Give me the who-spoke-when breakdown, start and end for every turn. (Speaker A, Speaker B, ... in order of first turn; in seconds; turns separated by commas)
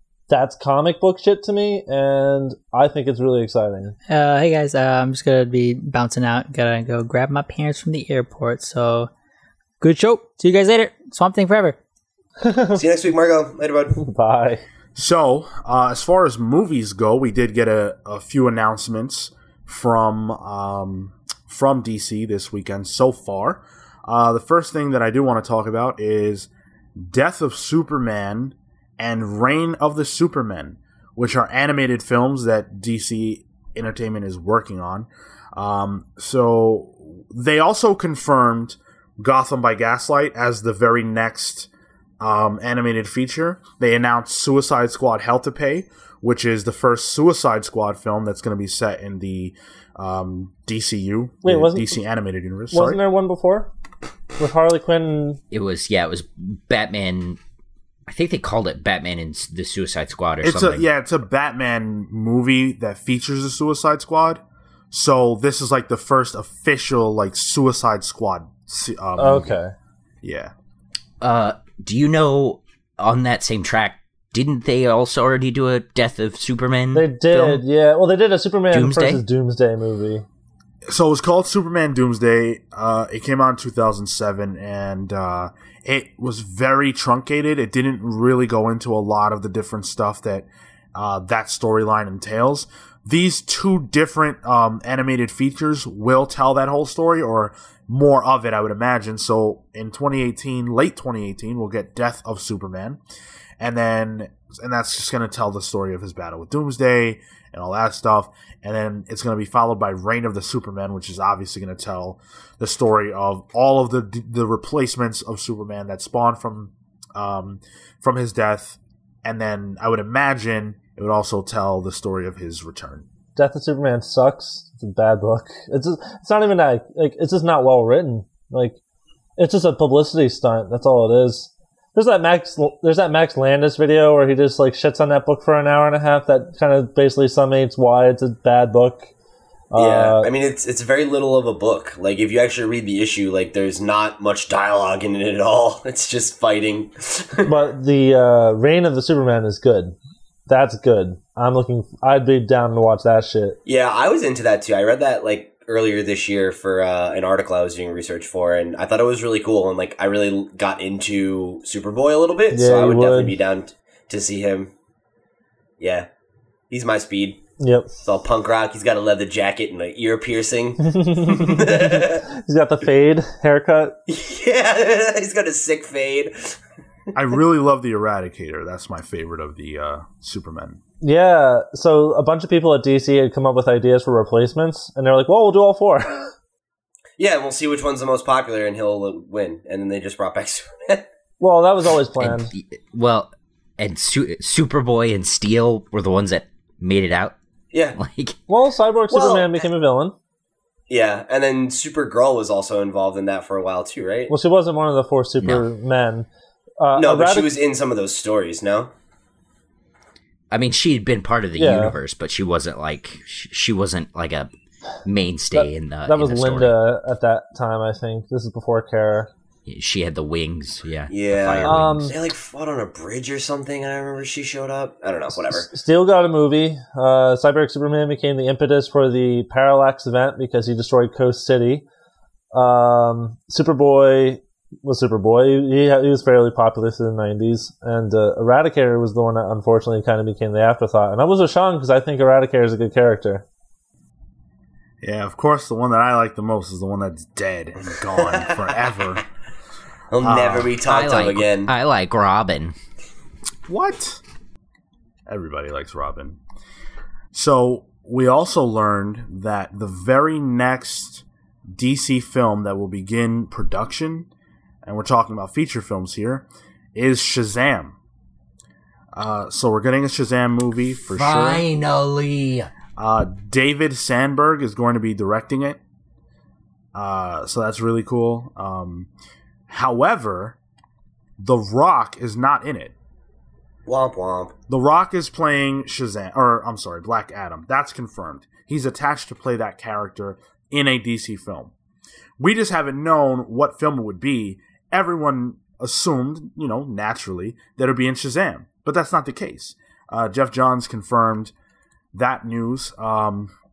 Speaker A: 0.3-4.0, Speaker B: 4.1-9.1, Speaker B: 9.8-11.8, Speaker A: 12.4-12.8, Speaker C: 12.7-14.0, Speaker A: 13.9-14.6, Speaker D: 14.9-41.7, Speaker D: 42.2-53.0, Speaker A: 51.4-51.9, Speaker A: 52.7-53.7, Speaker A: 54.4-55.4, Speaker E: 55.5-57.4, Speaker E: 58.1-60.8, Speaker D: 60.4-69.5, Speaker A: 69.2-69.7, Speaker D: 70.2-70.5, Speaker E: 71.2-77.6, Speaker A: 76.9-80.2, Speaker E: 78.7-79.2, Speaker D: 80.9-103.0, Speaker D: 103.6-123.0, Speaker A: 123.3-128.8, Speaker A: 129.4-139.1, Speaker A: 139.7-140.3, Speaker C: 139.7-147.5, Speaker A: 147.4-149.9, Speaker A: 150.5-153.6, Speaker C: 153.7-164.7, Speaker A: 162.5-163.3, Speaker C: 165.8-166.1, Speaker C: 166.7-167.4, Speaker A: 167.6-168.0, Speaker C: 168.0-172.2, Speaker A: 170.9-173.9, Speaker C: 174.1-176.6, Speaker D: 177.1-180.8, Speaker A: 181.0-186.3, Speaker C: 187.2-191.0, Speaker A: 191.4-192.5, Speaker E: 192.2-197.3, Speaker C: 197.7-198.0, Speaker E: 197.9-198.4, Speaker A: 198.5-200.1, Speaker C: 199.1-199.6, Speaker C: 200.9-204.3, Speaker A: 204.3-206.3, Speaker A: 206.8-207.5, Speaker C: 206.9-208.9, Speaker E: 210.5-214.5, Speaker A: 211.6-211.9, Speaker E: 215.0-216.8, Speaker A: 215.5-219.3, Speaker E: 219.7-222.1, Speaker C: 221.1-225.7, Speaker A: 221.6-222.1, Speaker A: 225.3-231.8, Speaker A: 232.5-243.4, Speaker D: 245.0-249.2, Speaker C: 248.2-248.8, Speaker C: 250.1-251.7, Speaker D: 250.2-250.7, Speaker E: 250.8-252.7, Speaker D: 253.7-254.2, Speaker D: 255.3-256.4, Speaker D: 257.3-264.3, Speaker D: 264.8-267.9, Speaker D: 269.1-271.6, Speaker E: 271.0-272.7, Speaker D: 273.0-275.8, Speaker D: 276.9-279.1, Speaker D: 279.7-280.6, Speaker D: 281.4-282.9, Speaker C: 283.9-284.5, Speaker D: 284.7-291.7, Speaker D: 292.4-301.5, Speaker D: 302.1-303.5